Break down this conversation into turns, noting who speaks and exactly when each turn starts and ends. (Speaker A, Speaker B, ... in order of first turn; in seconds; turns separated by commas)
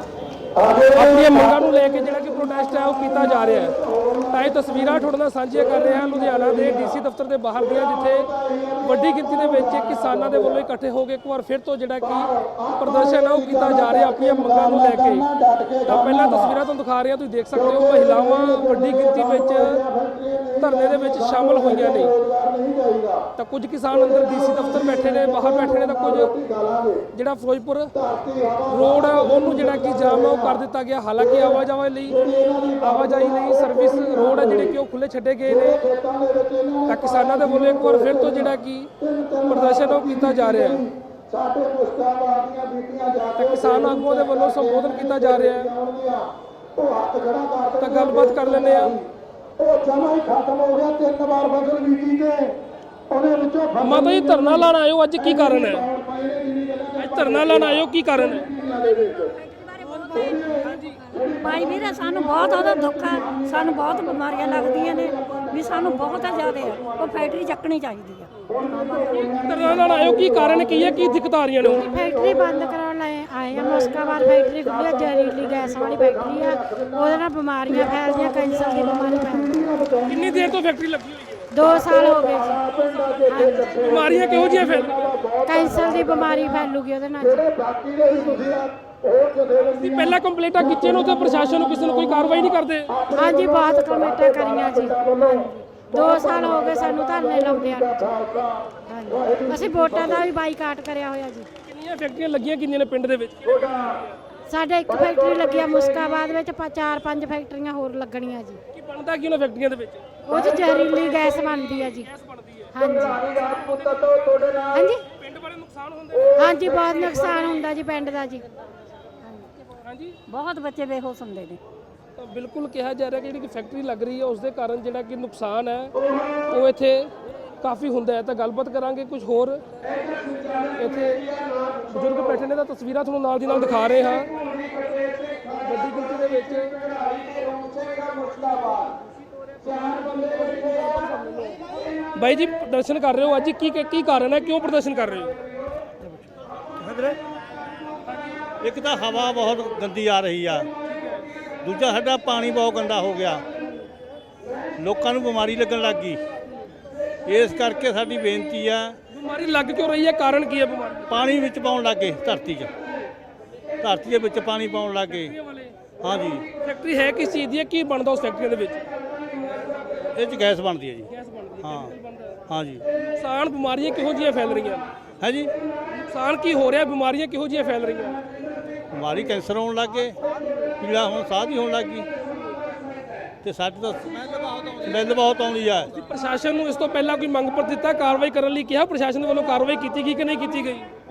Speaker A: 0.6-1.3, Speaker B: 0.9-3.8, Speaker A: 3.9-4.3, Speaker B: 4.3-8.3, Speaker A: 5.8-6.8, Speaker A: 7.7-10.5, Speaker B: 8.8-15.3, Speaker A: 12.1-16.5, Speaker B: 15.9-19.8, Speaker A: 17.6-23.3, Speaker B: 20.6-22.1, Speaker B: 23.4-26.3, Speaker A: 23.9-27.1, Speaker B: 27.1-27.9, Speaker A: 27.9-30.6, Speaker B: 28.7-32.2, Speaker A: 31.2-31.6, Speaker A: 32.1-34.7, Speaker B: 32.8-35.8, Speaker A: 35.5-38.5, Speaker B: 36.9-38.9, Speaker A: 39.0-49.0, Speaker B: 39.5-40.8, Speaker B: 43.4-45.7, Speaker B: 47.8-48.9, Speaker A: 49.6-52.6, Speaker A: 53.1-54.6, Speaker B: 53.8-55.9, Speaker A: 55.2-59.4, Speaker B: 57.0-58.5, Speaker C: 59.6-60.4, Speaker A: 60.1-67.3, Speaker B: 60.7-61.0, Speaker C: 61.2-69.1, Speaker A: 68.5-71.0, Speaker B: 69.1-71.9, Speaker A: 71.6-72.7, Speaker D: 71.7-79.7, Speaker A: 73.5-77.1, Speaker A: 77.7-80.3, Speaker B: 80.1-81.5, Speaker D: 81.5-83.9, Speaker A: 81.6-86.6, Speaker B: 83.8-85.1, Speaker D: 85.5-87.5, Speaker A: 87.2-90.0, Speaker D: 88.1-88.6, Speaker B: 89.8-92.9, Speaker A: 92.9-100.3, Speaker D: 93.1-98.1, Speaker D: 98.9-101.5, Speaker B: 101.7-103.8, Speaker D: 104.5-108.6, Speaker A: 104.9-106.1, Speaker B: 108.7-110.0, Speaker D: 110.3-112.1, Speaker A: 110.3-111.2, Speaker B: 112.0-112.8, Speaker D: 112.7-113.2, Speaker A: 112.9-114.9, Speaker B: 113.3-114.3, Speaker D: 114.7-115.0, Speaker B: 115.1-116.4, Speaker A: 116.2-117.4, Speaker D: 116.4-118.5, Speaker B: 119.7-120.2, Speaker C: 120.3-121.6, Speaker B: 122.2-125.9, Speaker B: 126.5-129.6, Speaker A: 129.8-132.0, Speaker B: 130.8-131.2, Speaker B: 131.9-134.3, Speaker A: 134.3-139.0, Speaker B: 135.6-136.7, Speaker A: 139.6-141.6, Speaker B: 142.2-145.3, Speaker E: 146.8-147.2, Speaker E: 148.6-150.7, Speaker E: 151.6-153.4, Speaker E: 154.8-156.2, Speaker E: 157.3-159.0, Speaker B: 159.1-161.2, Speaker E: 161.1-162.7, Speaker E: 163.8-165.3, Speaker B: 165.2-165.7, Speaker E: 166.0-166.5, Speaker B: 166.6-168.8, Speaker E: 170.2-171.1, Speaker B: 171.1-172.3, Speaker E: 171.6-171.9, Speaker E: 172.5-172.8, Speaker B: 173.2-174.8, Speaker E: 175.2-175.5, Speaker B: 175.9-178.2, Speaker E: 178.9-180.2, Speaker E: 180.8-182.1, Speaker E: 183.4-185.9, Speaker B: 185.9-190.9